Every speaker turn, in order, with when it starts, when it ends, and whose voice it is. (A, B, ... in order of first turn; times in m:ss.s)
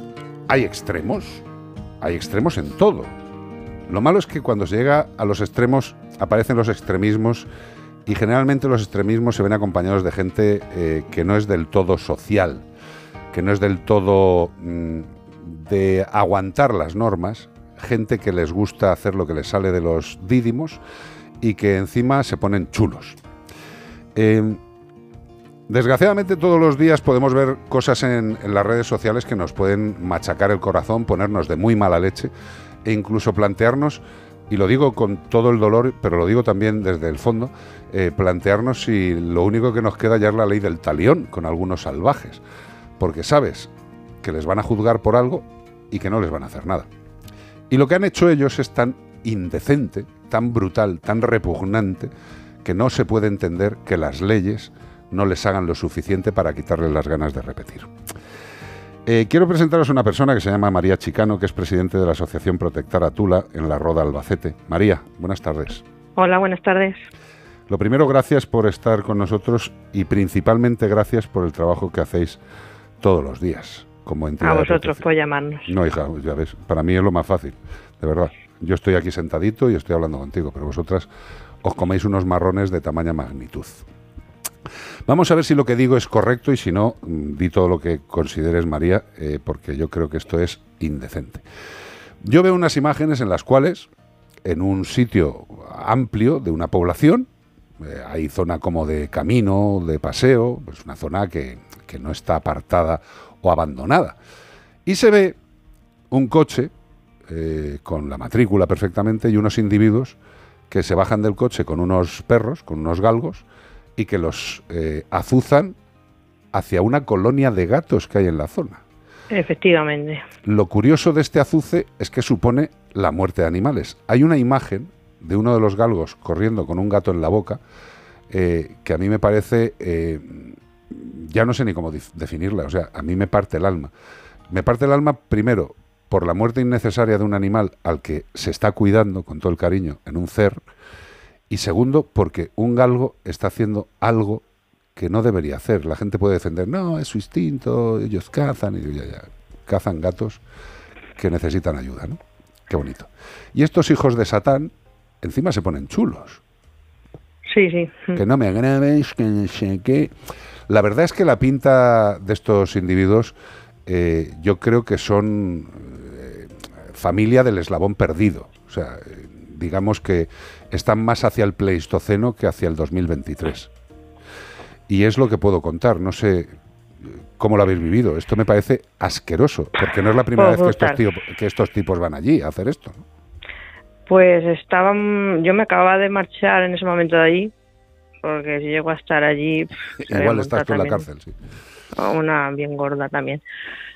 0:00.5-0:01.4 A
0:02.0-0:03.1 A
0:03.9-0:07.5 A
0:08.0-0:12.6 A
0:13.3-0:20.8 A
0:21.4-0:23.2 A
0:24.2-0:24.6 A
0:25.7-0:32.3 A
0:32.8-0:42.4 A
0:43.0-0:46.9 A
0:47.7-0:52.1 A
0:52.6-0:57.9 A
0:59.0-1:05.8 A
1:06.2-1:07.0 B
1:07.7-1:12.4 A
1:13.0-1:15.0 A
1:14.4-1:15.7 B
1:15.7-1:21.1 A
1:21.6-1:23.9 A
1:25.1-1:31.4 A
1:32.2-1:33.9 A
1:34.4-1:37.3 A
1:37.8-1:44.2 A
1:44.9-1:45.4 A
1:46.1-1:46.7 A
1:47.3-1:50.2 A
1:50.7-1:53.4 A
1:54.0-1:55.8 A
1:56.5-1:58.8 A
1:59.3-2:00.2 B
2:00.4-2:07.6 A
2:08.3-2:13.9 A
2:14.5-2:20.6 A
2:21.5-2:30.4 A
2:31.2-2:32.2 A
2:32.7-2:36.4 A
2:37.4-2:38.2 B
2:38.2-2:40.1 A
2:40.7-2:43.3 A
2:43.8-2:53.7 A
2:54.9-2:56.5 A
2:57.1-3:03.0 A
3:00.4-3:01.0 B
3:04.1-3:07.5 B
3:08.2-3:11.0 B
3:10.0-3:11.3 A
3:11.9-3:13.4 B